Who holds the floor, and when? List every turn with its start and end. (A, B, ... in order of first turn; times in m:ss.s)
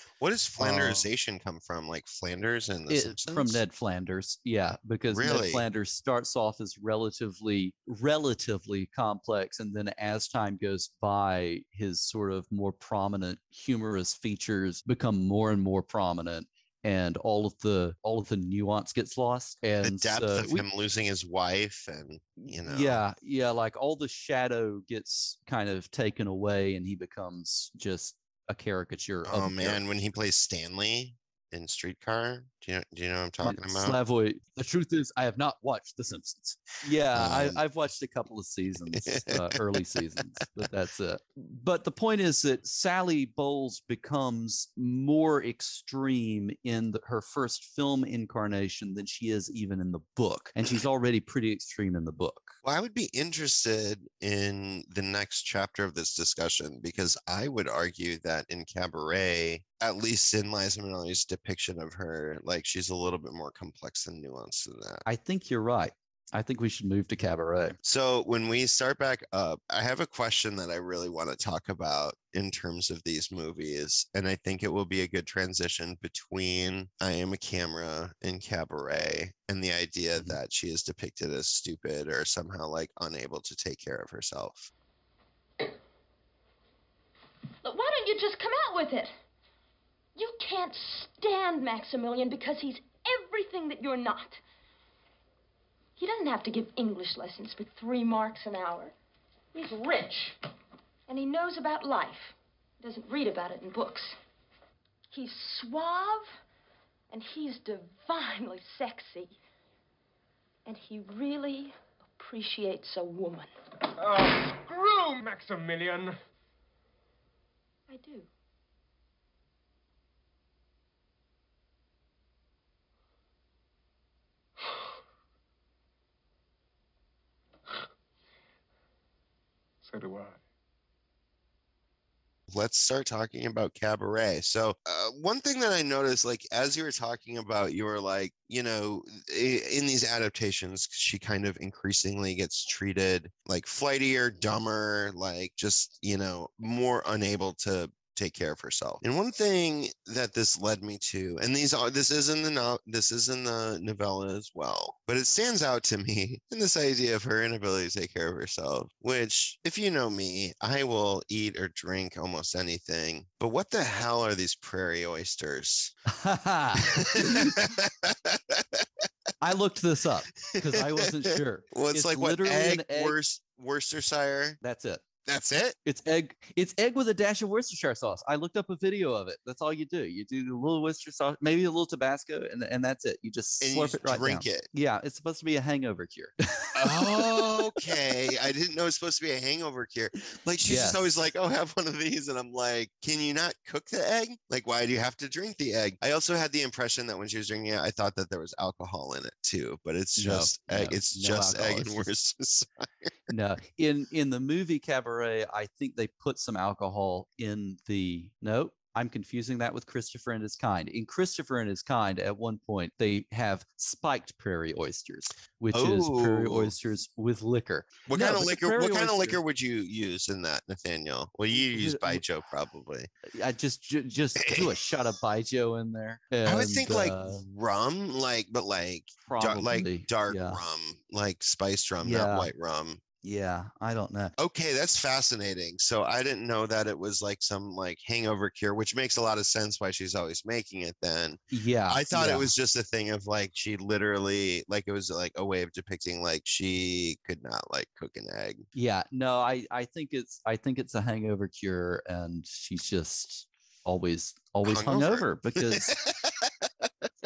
0:00.2-0:03.6 A
0:00.6-0:01.1 B
0:02.9-0:20.6 B
0:05.1-0:05.6 A
0:19.8-0:23.0 A
0:22.7-0:29.8 B
0:29.2-0:34.0 A
0:33.4-0:52.6 B
0:37.2-0:37.6 A
0:38.9-0:39.6 A
0:52.6-1:05.0 A
1:05.1-1:07.8 B
1:07.8-1:24.7 A
1:27.6-1:29.1 C
1:30.2-1:34.4 C
1:36.0-1:39.0 C
1:39.5-1:40.4 C
1:41.1-1:44.2 C
1:45.1-1:46.4 C
1:47.1-1:49.4 C
1:50.7-1:53.5 C
1:54.0-1:56.2 D
1:57.9-1:58.3 C
2:09.8-2:10.4 D
2:12.5-2:46.0 A
2:46.1-2:47.7 B
2:46.8-2:48.9 A
2:49.4-2:53.2 B
2:50.5-2:54.6 A
2:54.6-2:55.0 B
2:55.3-2:55.8 A
2:55.8-3:07.7 B
3:03.6-3:04.7 A
3:06.8-3:23.1 A
3:10.6-3:11.1 B
3:20.2-3:22.1 B
3:23.3-3:39.4 B
3:35.7-3:36.7 A
3:38.1-3:43.1 A
3:41.5-3:42.2 B
3:43.3-3:47.4 B
3:44.4-3:44.9 A
3:46.4-3:53.0 A
3:49.2-3:50.6 B
3:52.0-3:52.5 B
3:53.2-3:54.3 B
3:54.4-4:08.7 A
4:01.5-4:02.5 B
4:08.7-4:16.0 B
4:14.6-4:16.8 A